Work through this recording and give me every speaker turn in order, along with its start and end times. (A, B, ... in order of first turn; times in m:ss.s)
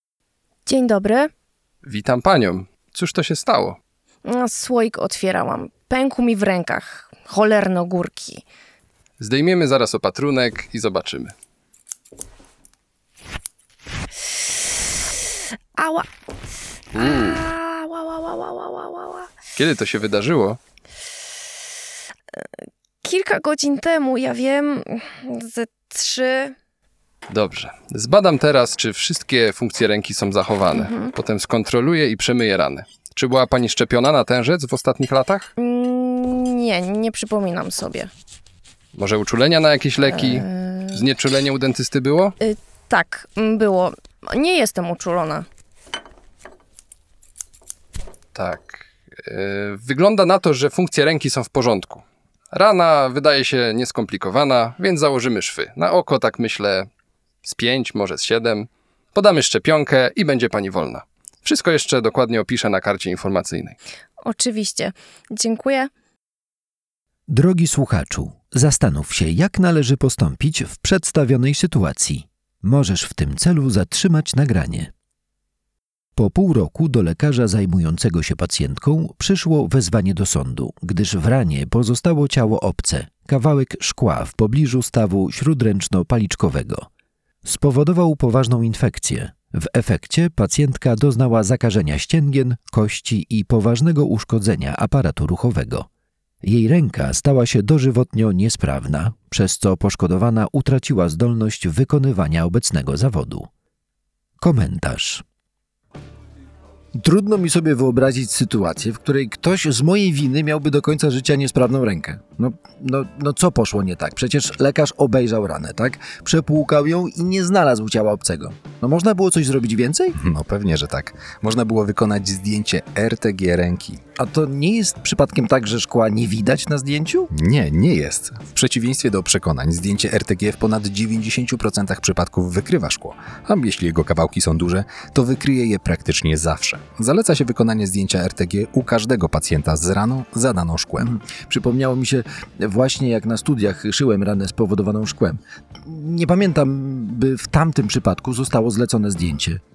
0:00.7-0:01.3 A
0:01.8-0:03.8 B
0:04.2-0:08.4 A
0:09.2-0:11.3 B
0:15.8-0:16.1 A
0:16.9-0:17.4 B
0:17.0-0:19.3 A
0:19.6-0:20.6 B
0:23.0-0:26.5 A
0:27.3-0:35.5 B
0:30.7-0:31.1 A
0:35.6-0:38.1 A
0:39.0-0:42.4 B
0:40.1-0:41.0 A
0:42.4-0:45.5 A
0:48.4-0:56.9 B
0:57.4-1:03.8 B
1:04.2-1:05.9 A
1:07.3-1:14.9 C
1:16.2-1:26.9 C
1:27.4-1:35.9 C
1:36.4-1:43.5 C
1:44.4-1:45.2 C
1:47.0-2:00.1 D
2:00.2-2:04.0 E
2:04.2-2:07.3 D
2:07.3-2:21.1 E
2:21.2-2:29.6 D